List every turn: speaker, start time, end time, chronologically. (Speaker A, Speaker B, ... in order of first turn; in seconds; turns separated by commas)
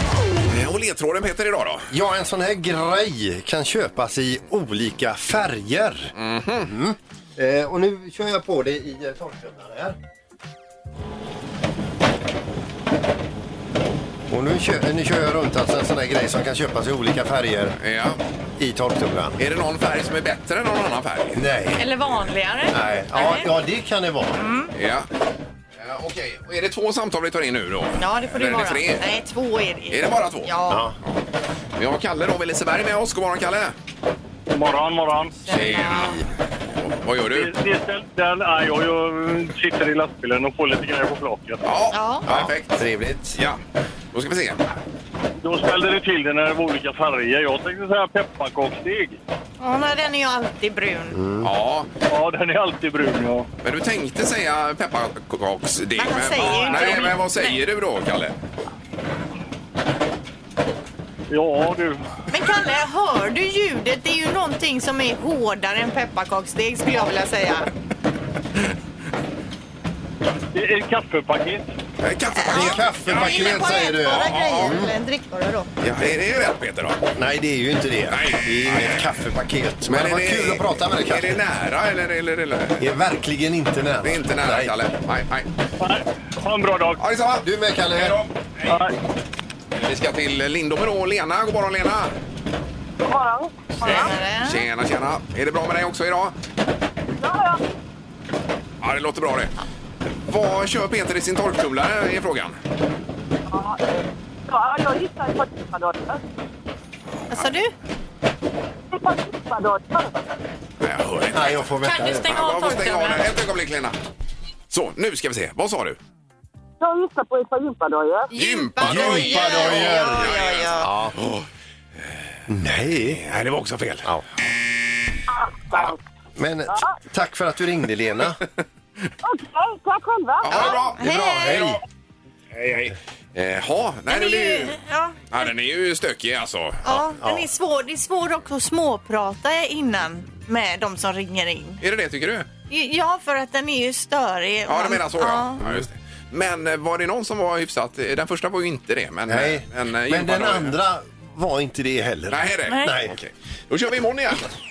Speaker A: 0.5-1.9, Speaker B: 1.9-6.1, Speaker A: 6.2-6.7, Speaker B: 6.7-10.0, Speaker B: 14.3-17.8, Speaker A: 17.8-18.2, Speaker B: 18.6-19.4, Speaker A: 19.4-21.4, Speaker B: 21.4-21.9, Speaker C: 21.8-23.5, Speaker B: 22.7-24.4, Speaker C: 24.4-24.7, Speaker A: 24.8-25.1, Speaker A: 25.8-29.2, Speaker C: 28.0-30.8, Speaker A: 29.9-30.5, Speaker B: 30.7-31.0, Speaker A: 31.8-33.8, Speaker D: 34.5-35.4, Speaker C: 35.5-36.2, Speaker A: 35.5-37.6, Speaker D: 37.3-41.6, Speaker A: 41.6-42.8, Speaker C: 41.9-42.3, Speaker B: 42.3-43.4, Speaker A: 44.1-44.6, Speaker D: 45.4-49.2, Speaker C: 49.6-51.2, Speaker B: 51.1-51.5, Speaker A: 51.4-51.9, Speaker D: 52.1-53.5, Speaker A: 53.6-58.3, Speaker C: 56.0-57.6, Speaker D: 61.3-62.0, Speaker C: 62.3-67.7, Speaker D: 70.5-71.7, Speaker A: 72.0-74.8, Speaker C: 72.4-75.7, Speaker B: 72.5-74.9, Speaker A: 75.8-77.0, Speaker B: 77.2-81.4, Speaker A: 78.1-79.1, Speaker A: 79.9-82.8, Speaker B: 82.8-84.7, Speaker A: 84.0-85.5, Speaker D: 85.8-87.0, Speaker A: 87.0-88.8, Speaker B: 87.4-88.2, Speaker D: 88.7-88.9, Speaker A: 89.8-92.1, Speaker E: 93.0-94.1, Speaker A: 93.8-96.3, Speaker C: 93.8-94.6, Speaker E: 97.2-97.7, Speaker A: 98.8-99.5, Speaker A: 100.3-102.6, Speaker E: 103.5-106.2, Speaker C: 107.3-107.7, Speaker E: 108.9-110.3, Speaker A: 110.8-111.7, Speaker B: 111.3-112.3, Speaker C: 111.8-113.3, Speaker A: 112.2-114.0, Speaker A: 114.7-116.0, Speaker E: 116.8-118.3, Speaker C: 118.3-120.9, Speaker A: 118.3-121.5, Speaker B: 118.8-121.2, Speaker B: 122.5-123.2, Speaker A: 123.1-124.1, Speaker E: 125.3-126.0, Speaker B: 126.4-128.4, Speaker E: 129.2-130.7, Speaker A: 130.4-131.8, Speaker C: 130.5-131.7, Speaker B: 131.0-131.8, Speaker A: 132.6-134.8, Speaker C: 134.1-135.5, Speaker A: 135.3-137.0, Speaker C: 136.8-141.8, Speaker A: 141.8-142.5, Speaker C: 142.7-145.6, Speaker A: 144.7-150.8, Speaker B: 149.3-153.2, Speaker A: 152.3-154.5, Speaker C: 152.7-153.0